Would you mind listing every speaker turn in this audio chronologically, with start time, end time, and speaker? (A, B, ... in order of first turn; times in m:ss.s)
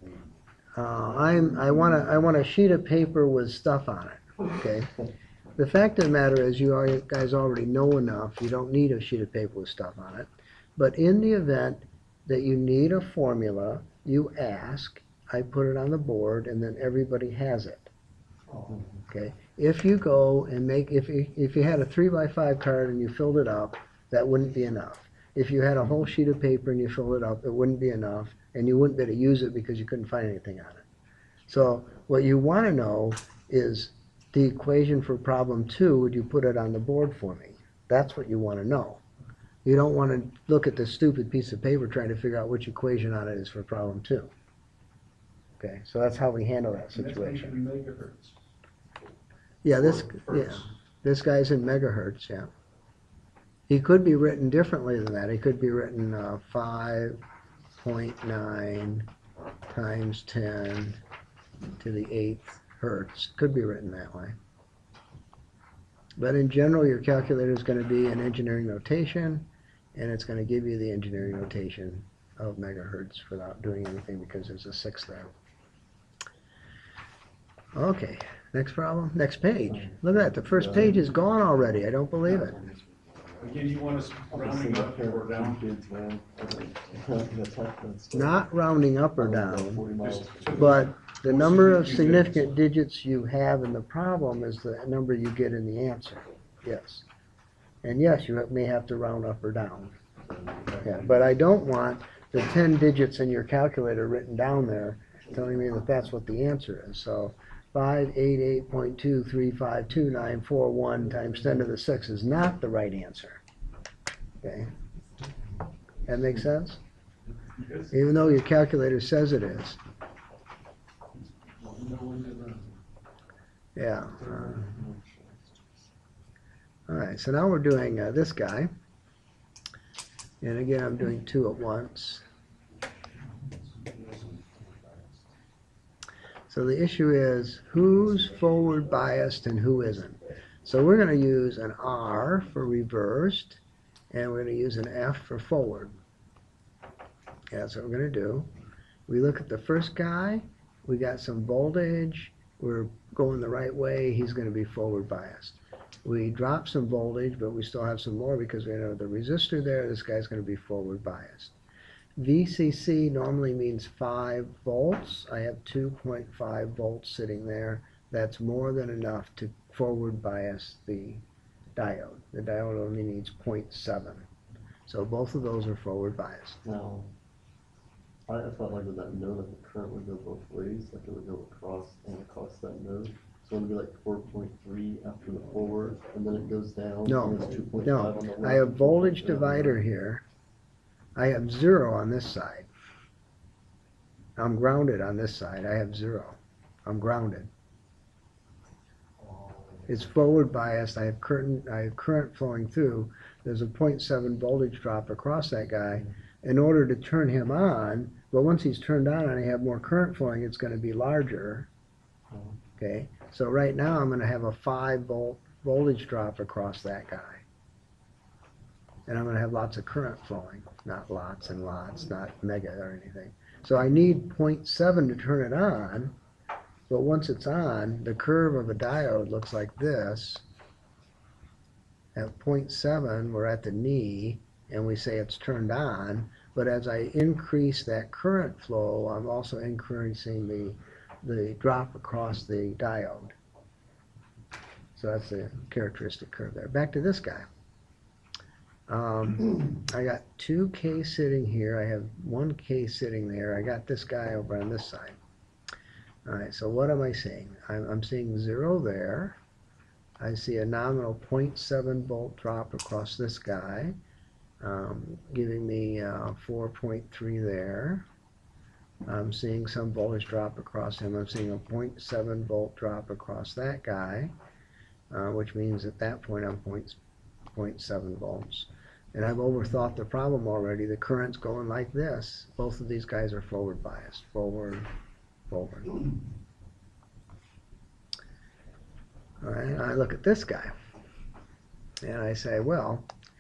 0:00.8-0:05.0 A
0:05.6-0:17.9 A
0:19.1-0:30.9 A
0:31.5-0:39.0 A
0:39.6-0:44.3 A
0:45.6-0:47.6 A
0:46.9-0:48.3 B
0:49.6-0:52.5 A
0:49.8-0:50.7 B
0:53.7-0:57.2 A
0:57.8-0:59.1 A
0:59.7-1:01.0 A
1:01.8-1:04.4 A
1:06.2-1:15.3 A
1:17.7-1:22.6 A
1:19.7-1:28.4 C
1:23.4-1:25.7 B
1:28.1-1:29.9 A
1:29.2-1:30.9 C
1:30.0-1:32.6 B
1:30.5-1:37.0 A
1:37.8-1:39.9 A
1:40.3-1:41.0 C
1:40.8-1:53.4 A
1:54.4-1:54.7 A
1:56.1-1:56.8 A
1:57.6-1:57.9 B
1:57.9-1:59.8 A
2:01.6-2:02.7 B
2:03.8-2:04.8 A
2:04.0-2:05.9 C
2:06.9-2:08.7 A
2:10.4-2:12.2 A
2:13.7-2:15.1 B
2:16.5-2:25.9 A
2:27.5-2:28.5 A
2:29.1-2:41.5 A
2:42.2-2:51.2 A
2:51.8-2:54.3 A
2:54.9-2:56.6 A
2:56.6-2:57.1 C
2:58.3-3:09.8 C
3:07.0-3:10.2 A
3:11.2-3:12.7 A
3:14.4-3:17.5 A
3:19.9-3:31.7 A
3:32.3-3:32.6 C
3:32.8-3:37.4 A
3:39.1-3:46.1 A
3:46.9-3:50.4 A
3:52.1-4:03.3 A
4:05.0-4:07.5 A
4:08.9-4:15.2 A
4:16.2-4:19.4 A
4:20.2-4:24.0 A
4:24.6-4:28.0 A
4:29.0-4:34.3 A
4:35.1-4:37.0 A
4:37.5-4:44.9 A
4:45.5-4:46.0 A
4:49.4-4:50.8 A
4:52.0-4:53.1 A